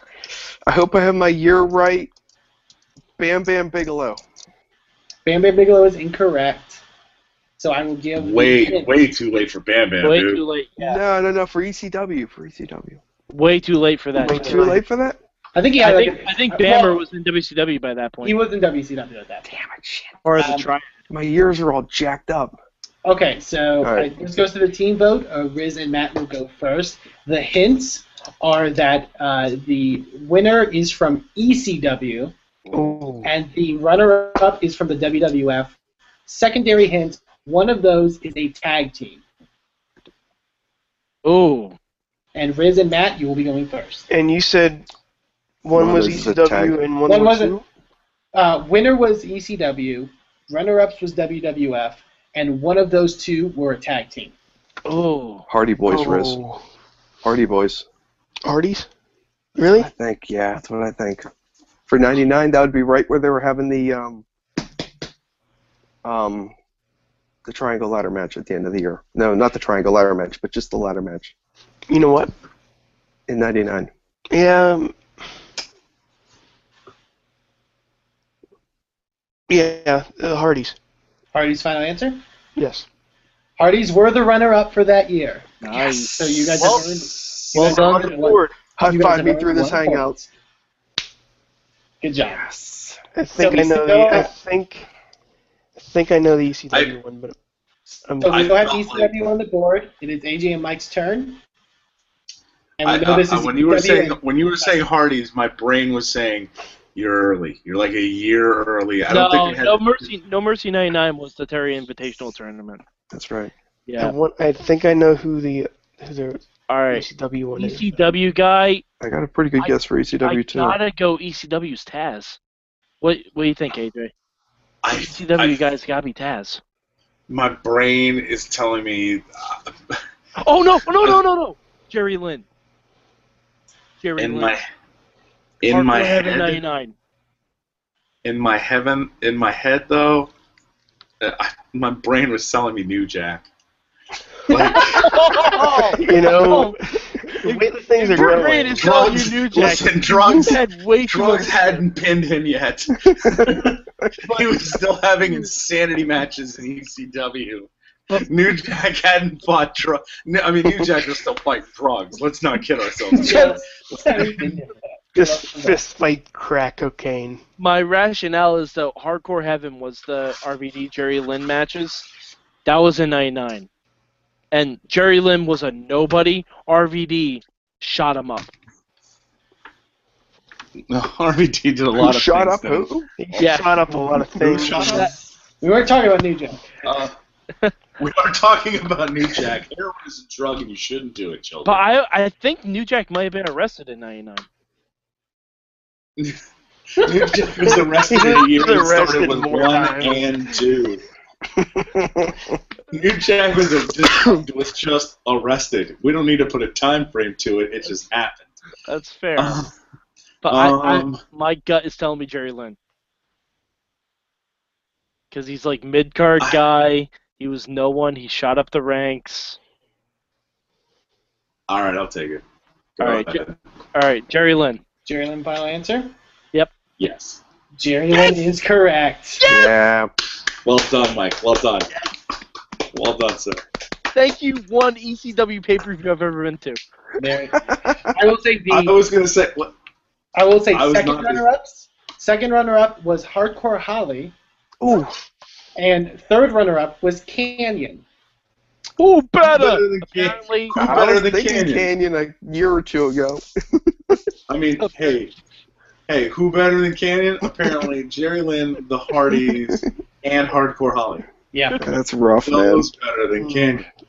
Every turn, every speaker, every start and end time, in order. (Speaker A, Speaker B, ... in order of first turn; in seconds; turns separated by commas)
Speaker A: 0.7-2.1, Speaker A: 3.2-4.2, Speaker B: 5.3-6.8, Speaker B: 7.6-9.1, Speaker C: 8.2-10.4, Speaker D: 10.0-11.0, Speaker A: 10.8-13.0, Speaker D: 13.3-14.8, Speaker E: 14.2-14.8, Speaker A: 14.2-15.2, Speaker B: 15.6-17.0, Speaker D: 15.8-18.4, Speaker B: 18.2-19.5, Speaker A: 19.5-20.3, Speaker D: 20.2-20.9, Speaker B: 20.4-20.7, Speaker A: 21.1-22.6, Speaker B: 23.1-32.3, Speaker A: 23.8-24.1, Speaker E: 32.7-33.3, Speaker B: 33.2-35.8, Speaker B: 36.3-39.2, Speaker D: 41.2-41.8, Speaker B: 42.4-44.1, Speaker E: 44.1-44.9, Speaker E: 45.6-47.6, Speaker A: 45.7-46.8, Speaker B: 47.1-47.5, Speaker B: 48.3-54.4, Speaker D: 54.9-55.5, Speaker A: 55.5-56.4, Speaker E: 55.9-56.6, Speaker A: 57.2-57.9, Speaker E: 58.5-58.9, Speaker E: 59.6-59.9, Speaker A: 59.8-61.3, Speaker A: 61.9-64.2, Speaker A: 66.0-66.5, Speaker A: 67.5-71.3, Speaker E: 71.9-72.3, Speaker A: 73.3-73.9, Speaker E: 74.3-75.0, Speaker E: 79.5-80.8, Speaker B: 81.3-82.2, Speaker E: 82.6-82.9, Speaker B: 83.6-85.5, Speaker D: 85.6-86.8, Speaker A: 85.7-86.8, Speaker B: 86.1-90.3, Speaker D: 87.5-88.1, Speaker E: 87.5-88.6, Speaker A: 88.8-90.2, Speaker B: 92.0-92.5, Speaker A: 92.3-93.0, Speaker E: 93.2-94.9, Speaker B: 93.3-94.3, Speaker E: 95.8-97.4, Speaker E: 98.0-98.4, Speaker B: 98.2-101.4, Speaker C: 98.2-99.2, Speaker B: 102.8-104.8, Speaker C: 102.8-110.1, Speaker D: 109.1-112.8, Speaker A: 113.1-113.5, Speaker D: 113.9-114.2, Speaker E: 114.0-118.1, Speaker D: 116.7-118.8, Speaker A: 119.0-120.8, Speaker D: 119.6-122.4, Speaker D: 123.0-124.1, Speaker C: 124.8-125.6, Speaker D: 124.9-126.6, Speaker C: 127.3-130.0, Speaker D: 130.4-132.4, Speaker D: 134.0-134.6, Speaker C: 134.2-134.7, Speaker C: 135.6-136.6, Speaker D: 135.7-136.9, Speaker C: 138.2-140.3, Speaker C: 141.2-143.5, Speaker C: 144.5-145.6, Speaker D: 144.8-146.8, Speaker E: 146.0-149.0, Speaker D: 147.4-151.8, Speaker C: 148.2-164.6, Speaker A: 153.1-154.5, Speaker B: 163.2-165.8, Speaker E: 165.2-167.4, Speaker D: 167.6-172.1, Speaker D: 172.7-173.7, Speaker D: 174.5-178.5, Speaker C: 180.9-183.4, Speaker A: 182.0-183.1, Speaker E: 183.2-185.1, Speaker D: 183.4-183.8, Speaker A: 184.4-185.1, Speaker C: 184.4-185.1, Speaker D: 184.7-185.1, Speaker B: 185.6-186.7, Speaker C: 186.8-187.1, Speaker C: 188.0-191.8, Speaker D: 191.7-194.5, Speaker C: 197.0-201.0, Speaker E: 198.1-200.3, Speaker A: 201.6-202.6, Speaker C: 202.9-208.5, Speaker D: 208.9-209.6, Speaker C: 209.4-209.7, Speaker D: 210.4-212.8, Speaker C: 210.5-211.2, Speaker D: 215.3-219.6, Speaker C: 221.7-222.4, Speaker C: 223.0-223.6, Speaker D: 223.0-223.4, Speaker D: 223.9-224.8, Speaker B: 225.1-226.1, Speaker C: 227.0-227.4, Speaker B: 227.8-229.4, Speaker D: 229.4-229.7, Speaker A: 229.4-230.1, Speaker C: 230.7-231.9, Speaker C: 232.9-233.6, Speaker D: 234.1-236.8, Speaker B: 237.2-239.0, Speaker A: 237.6-238.0, Speaker C: 238.7-239.7, Speaker B: 240.3-244.3, Speaker C: 240.7-241.4, Speaker A: 244.8-245.2, Speaker B: 245.8-248.1, Speaker D: 249.0-250.8, Speaker C: 249.4-251.9, Speaker A: 250.8-253.4, Speaker C: 254.5-255.3, Speaker C: 256.1-261.2, Speaker A: 259.3-259.8, Speaker B: 261.5-261.8, Speaker A: 261.8-262.9, Speaker C: 262.4-263.9, Speaker E: 263.4-263.8